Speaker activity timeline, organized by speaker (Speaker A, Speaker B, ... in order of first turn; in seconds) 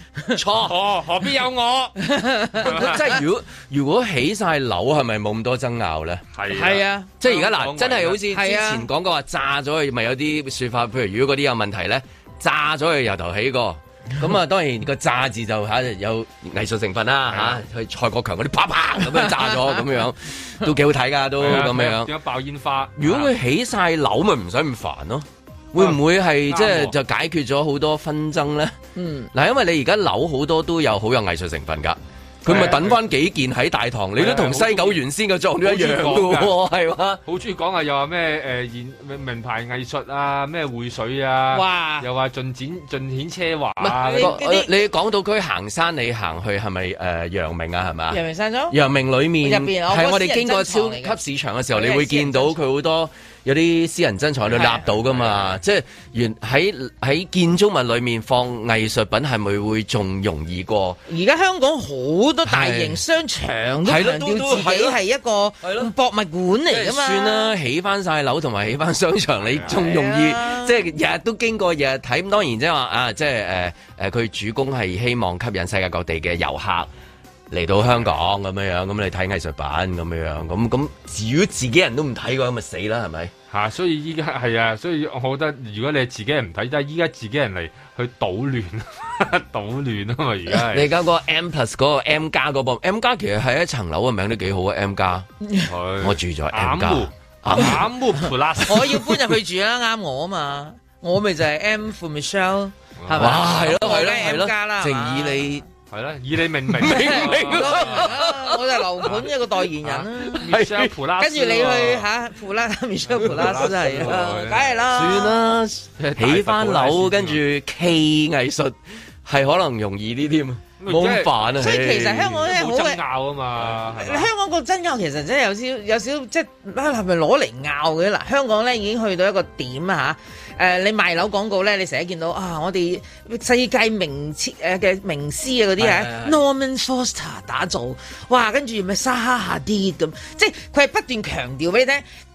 Speaker A: 0.3-0.7, 2.6-6.2, 7.2-22.1, 23.0-28.8, 29.3-37.2, 43.8-48.2, 48.7-61.0, 62.5-63.0, 63.8-65.0, 65.6-65.9, 66.7-76.9, 77.5-83.3, 90.6-95.3, 96.0-97.9, 103.2-105.6, 106.7-108.6, 110.3-110.9, 113.2-114.2, 114.9-122.4, 135.8-136.4
Speaker B: 0.6-1.9, 2.6-3.0, 6.3-8.2, 17.3-17.6, 21.4-23.3, 25.8-26.9, 32.4-33.0, 34.1-35.0, 35.6-36.5, 37.2-44.4, 83.5-90.9, 95.7-99.1, 103.0-103.6, 105.9-108.1, 109.8-112.1, 113.1-114.8, 116.0-117.4, 120.8-121.3, 122.3-124.3
Speaker C: 2.0-2.9, 6.5-7.1, 8.3-8.9, 28.9-29.3, 41.5-42.1, 43.9-44.8, 48.1-48.8, 49.4-51.1, 51.7-52.5, 54.5-54.9, 61.1-67.5, 69.6-70.8, 98.7-105.5, 107.0-110.4, 111.2-115.4, 121.6-123.0, 123.9-142.0